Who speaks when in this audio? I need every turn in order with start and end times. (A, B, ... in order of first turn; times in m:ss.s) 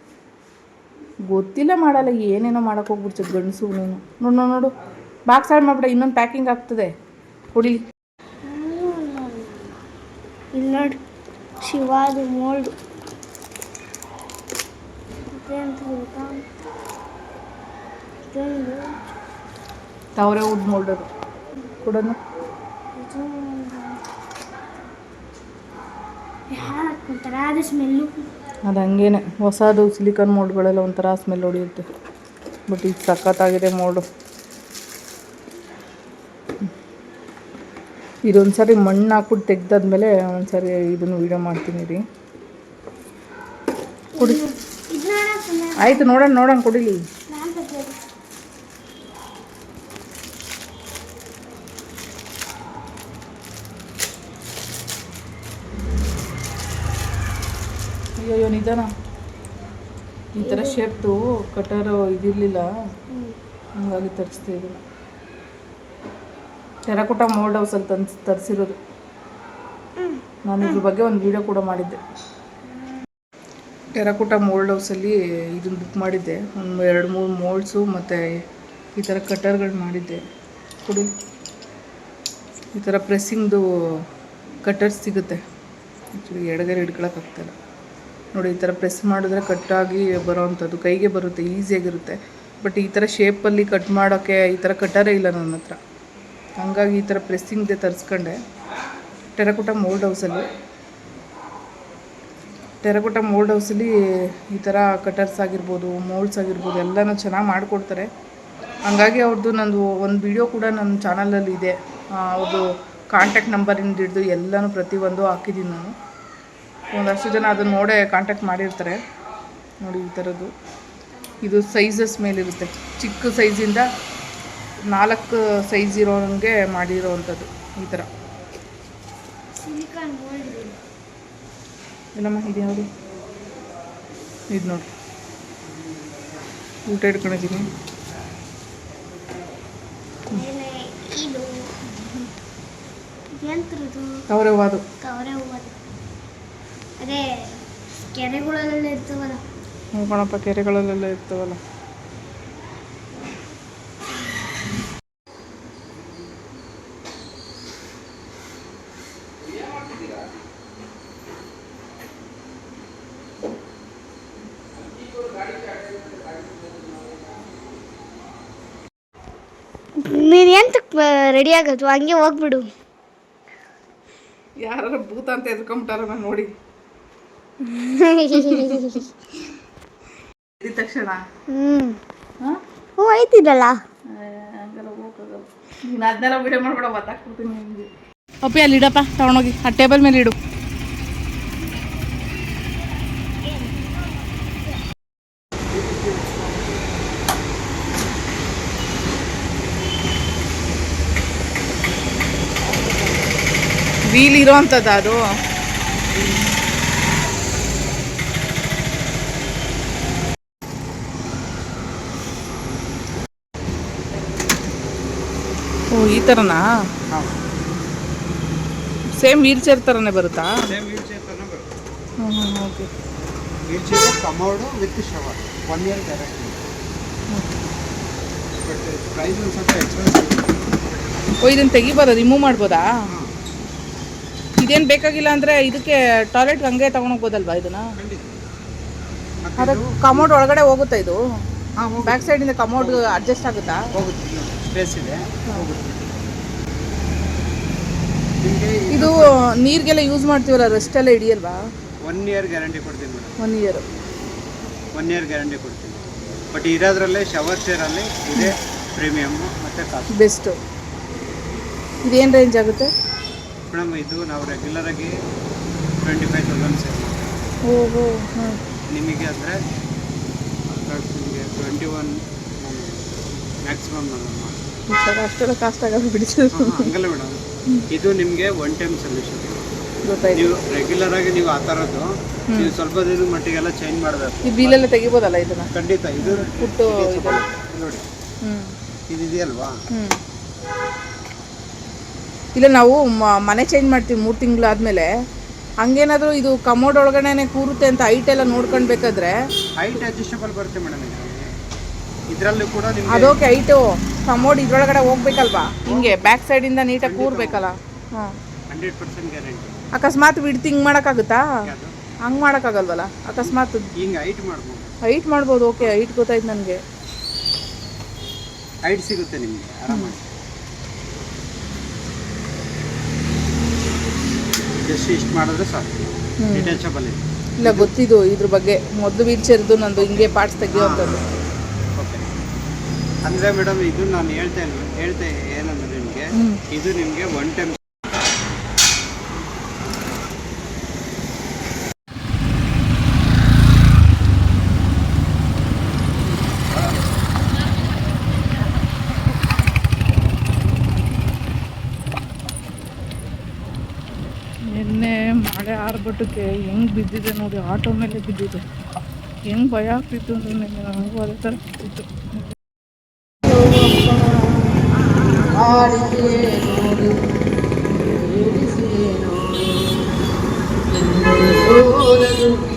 0:01.3-0:04.7 A
0:05.3-0:06.9 A
0:07.5-0:07.8 A
0:08.4-0:09.7 B
0:10.5-0:11.0 B
0:11.6-0:12.7 B
0:15.3-0:16.4 B
0:18.3-0:18.9 B
0:20.2-0:21.0 A
0:21.8-0:22.2 A
0:23.0-0:24.0 B
0:26.5-0:28.2 B
0:28.6-0:31.8 A
0:32.7-0:34.0 A
0:38.3-0:42.0 A
0:44.1-0:46.1 B
0:45.8-0:47.0 A
0:47.3-0:48.0 B
0:58.2-0:58.9 A
1:00.4-1:02.6 A
1:00.4-1:00.8 B
1:03.8-1:04.8 A
1:06.9-1:08.7 A
1:10.0-1:10.8 B
1:10.5-1:12.0 A
1:13.9-1:18.2 A
1:18.9-1:20.2 A
1:20.8-1:21.1 A
1:22.7-1:24.0 A
1:24.6-1:25.4 A
1:26.1-1:27.5 A
1:28.3-1:35.8 A
1:36.6-1:38.4 A
1:39.4-1:40.5 A
1:42.8-1:43.9 A
1:44.5-1:48.1 A
1:48.8-1:55.9 A
1:56.9-1:59.0 A
1:59.8-2:00.5 A
2:01.4-2:03.8 A
2:04.9-2:08.1 A
2:09.6-2:10.8 B
2:12.1-2:12.9 A
2:14.5-2:14.9 A
2:16.9-2:17.7 A
2:20.3-2:21.6 B
2:21.9-2:22.2 A
2:23.4-2:24.1 B
2:24.3-2:24.8 A
2:25.0-2:25.7 B
2:27.0-2:27.5 B
2:28.1-2:29.4 B
2:30.0-2:31.6 A
2:50.0-2:52.7 B
2:54.6-2:56.5 A
2:57.6-2:59.1 B
2:58.3-2:58.8 A
3:00.6-3:01.2 A
3:01.5-3:02.0 B
3:03.0-3:03.8 B
3:04.1-3:07.9 A
3:08.4-3:10.4 A
3:13.4-3:14.5 B
3:24.1-3:25.2 A
3:35.9-3:36.6 A
3:37.1-3:37.4 C
3:39.1-3:40.5 A
3:40.7-3:41.6 C
3:42.2-3:42.9 A
3:43.7-3:46.6 C
3:48.6-3:50.5 C
3:51.4-3:52.8 A
3:54.6-3:57.8 A
3:58.0-3:58.3 C
3:59.4-4:00.3 C
3:59.6-4:01.2 A
4:01.8-4:03.2 C
4:02.0-4:03.8 A
4:04.0-4:06.1 C
4:08.4-4:09.4 C
4:08.9-4:11.6 A
4:12.0-4:13.3 C
4:13.4-4:13.8 A
4:14.9-4:16.0 C
4:16.5-4:20.1 C
4:20.2-4:20.5 A
4:22.0-4:22.9 A
4:23.7-4:25.1 C
4:26.0-4:27.3 C
4:27.7-4:28.6 A
4:28.9-4:29.6 C
4:30.7-4:33.0 C
4:33.6-4:34.5 C
4:34.9-4:36.9 A
4:36.5-4:37.4 C
4:37.9-4:39.6 C
4:40.1-4:40.5 A
4:40.3-4:44.8 C
4:44.4-4:45.7 A
4:45.7-4:48.0 C
4:46.2-4:47.4 A
4:49.1-4:49.7 C
4:52.5-4:55.1 A
4:55.8-4:59.3 A
4:59.8-5:01.4 C
5:02.3-5:03.4 C
5:03.1-5:08.3 A
5:05.8-5:06.3 C
5:07.0-5:07.6 C
5:08.7-5:09.8 C
5:09.9-5:11.4 A
5:11.6-5:11.9 C
5:12.2-5:13.9 A
5:14.0-5:14.9 C
5:15.1-5:16.8 A
5:18.8-5:20.2 C
5:24.8-5:26.0 C
5:26.4-5:26.8 A
5:26.5-5:28.0 C
5:27.6-5:31.2 A
5:30.0-5:31.3 C
5:32.0-5:32.3 C
5:33.2-5:37.8 C
5:54.7-5:58.6 A
5:59.5-6:02.1 A
6:03.5-6:04.4 A
6:05.5-6:07.2 A
6:08.2-6:09.6 A
6:10.9-6:12.5 A